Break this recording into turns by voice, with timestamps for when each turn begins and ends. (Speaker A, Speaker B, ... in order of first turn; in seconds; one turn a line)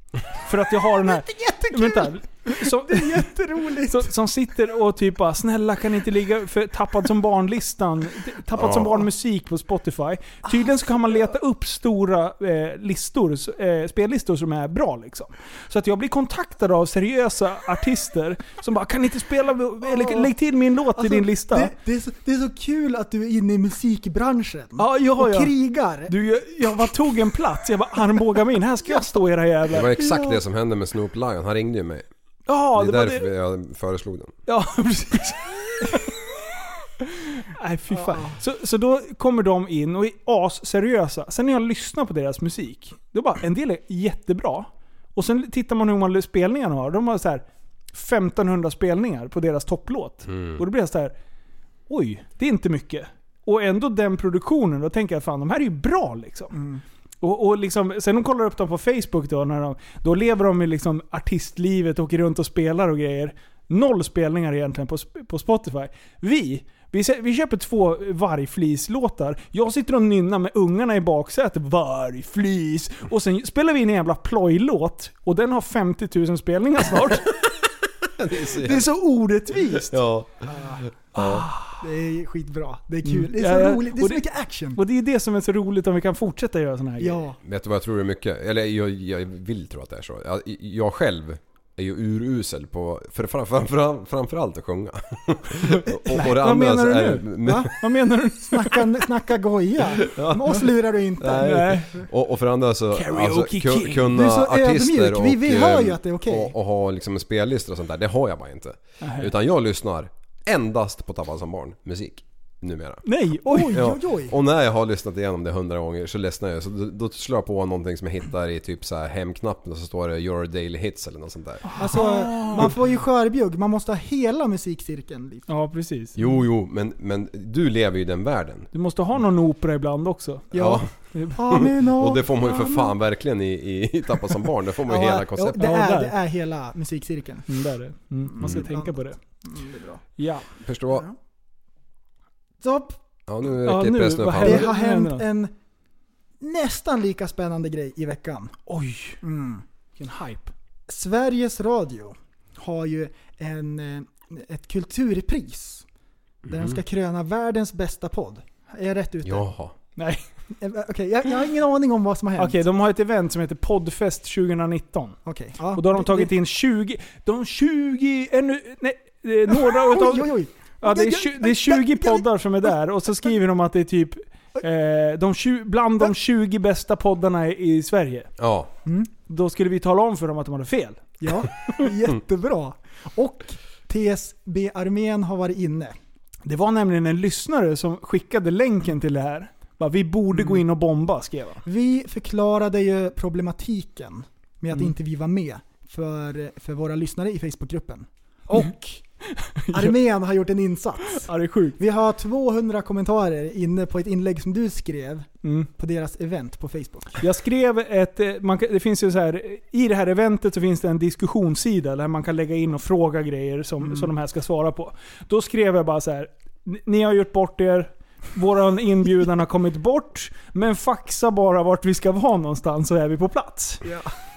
Speaker A: 0.4-3.3
Speaker B: 1.0-4.1
Speaker A: 3.9-21.7
Speaker C: 8.6-9.0
Speaker B: 19.9-20.3
Speaker B: 21.0-26.1
Speaker A: 24.8-25.5
Speaker A: 26.1-30.0
Speaker C: 29.7-32.0
Speaker A: 32.5-33.3
Speaker C: 32.7-34.3
Speaker A: 34.5-36.1
Speaker A: 37.0-51.1
Speaker B: 37.9-38.4
Speaker C: 50.3-50.6
Speaker A: 51.9-56.5
Speaker B: 56.5-56.8
Speaker A: 57.2-77.4
Speaker C: 78.2-78.9
Speaker A: 78.4-80.0
Speaker C: 79.9-81.5
Speaker B: 80.5-80.8
Speaker A: 81.1-81.8
Speaker B: 81.8-84.8
Speaker A: 83.0-84.2
Speaker A: 84.7-87.2
Speaker B: 87.0-87.4
Speaker C: 87.4-97.7
Speaker A: 96.1-98.8
Speaker B: 97.4-97.7
Speaker B: 98.5-101.7
Speaker C: 100.0-113.0
Speaker A: 101.4-102.0
Speaker A: 102.9-104.1
Speaker B: 104.1-106.5
Speaker A: 109.0-109.3
Speaker A: 113.0-113.8
Speaker B: 113.5-114.3
Speaker C: 113.7-121.8
Speaker A: 121.6-122.7
Speaker B: 121.8-125.5
Speaker A: 125.5-126.2
Speaker C: 126.2-128.7
Speaker A: 128.7-130.5
Speaker C: 130.5-130.9
Speaker B: 130.5-132.9
Speaker C: 131.4-135.7
Speaker B: 134.8-137.4
Speaker A: 135.6-136.1
Speaker A: 137.5-139.2
Speaker B: 138.3-140.1
Speaker A: 140.2-140.4
Speaker C: 140.6-141.1
Speaker B: 142.6-143.0
Speaker C: 143.3-144.7
Speaker A: 143.6-145.2
Speaker B: 144.4-145.5
Speaker B: 146.4-148.6
Speaker A: 148.7-149.2
Speaker B: 149.2-149.6
Speaker A: 150.0-150.5
Speaker B: 150.9-155.8
Speaker C: 156.4-156.8
Speaker B: 156.5-159.4
Speaker C: 159.2-159.7
Speaker A: 159.9-160.2
Speaker B: 160.6-162.6
Speaker A: 162.4-165.2
Speaker B: 165.2-166.3
Speaker A: 165.7-178.3
Speaker B: 169.5-172.7
Speaker C: 178.4-178.7
Speaker A: 179.3-181.2
Speaker B: 181.2-186.0
Speaker A: 186.4-191.6
Speaker B: 190.3-190.6
Speaker B: 191.6-199.0
Speaker A: 199.3-200.0
Speaker B: 199.7-207.2
Speaker A: 201.2-201.8
Speaker A: 205.4-205.7
Speaker A: 207.2-223.9